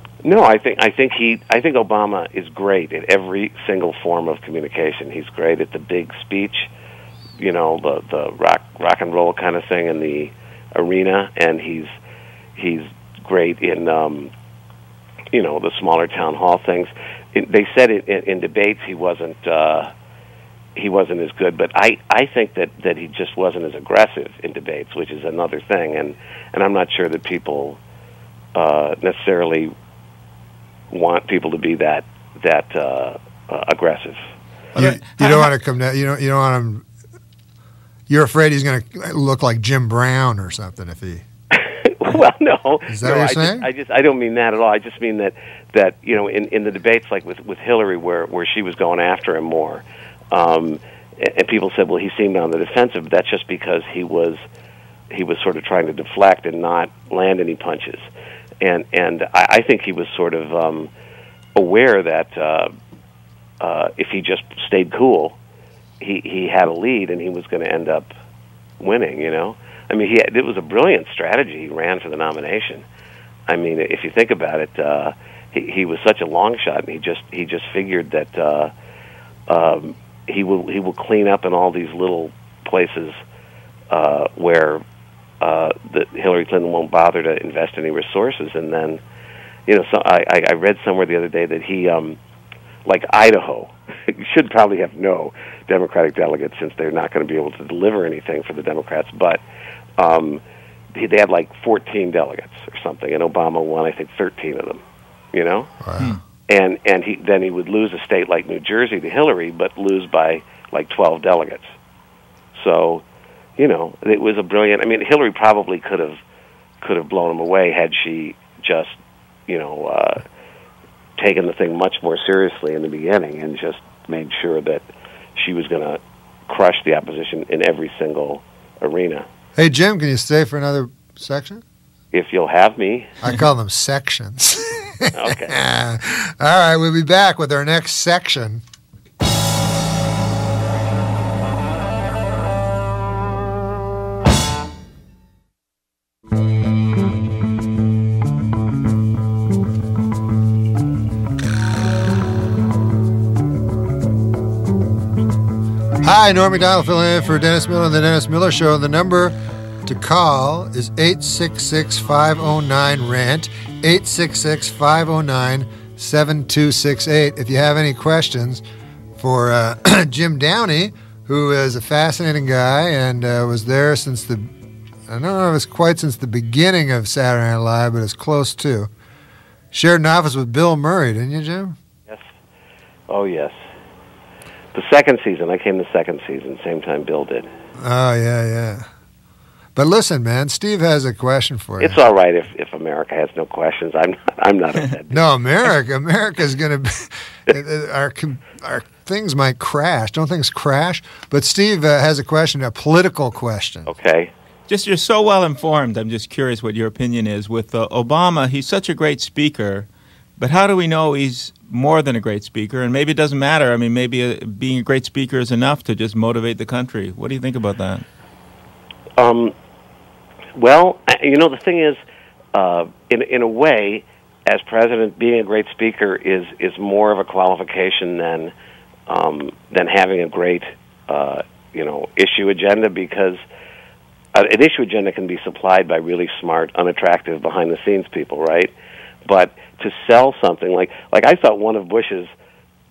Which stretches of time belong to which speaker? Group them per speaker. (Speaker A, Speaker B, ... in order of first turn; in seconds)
Speaker A: 0.2-6.7, 7.4-11.9, 12.6-14.3, 15.3-19.9, 20.8-27.8, 28.6-29.7, 30.9-34.2, 41.5-54.4, 55.1-58.0, 58.6-60.9, 61.5-62.7, 63.6-65.4, 66.0-68.1, 68.8-72.8, 73.5-78.7, 79.5-83.2, 83.9-84.8, 85.4-89.0, 89.7-92.2, 92.8-99.4, 100.0-100.4, 100.9-104.8, 105.3-105.7, 106.5-111.7, 112.5-113.0, 113.6-116.2, 116.8-119.0, 119.5-120.2, 121.2-124.8, 125.4-129.3, 132.1-133.1, 135.1-135.6, 183.1-183.6, 184.7-187.5, 191.8-195.2, 203.9-204.3, 219.2-219.6, 220.6-222.0, 222.5-228.5, 229.1-233.4, 234.3-238.7, 239.3-242.3
Speaker B: 34.7-35.5, 204.7-218.1
Speaker C: 34.8-36.9, 38.1-41.2, 42.9-43.7, 105.8-106.2, 129.6-131.6, 133.2-138.6, 156.0-168.6, 169.2-174.5, 175.1-178.9, 179.7-181.8, 187.8-188.9, 189.8-192.0, 195.1-203.9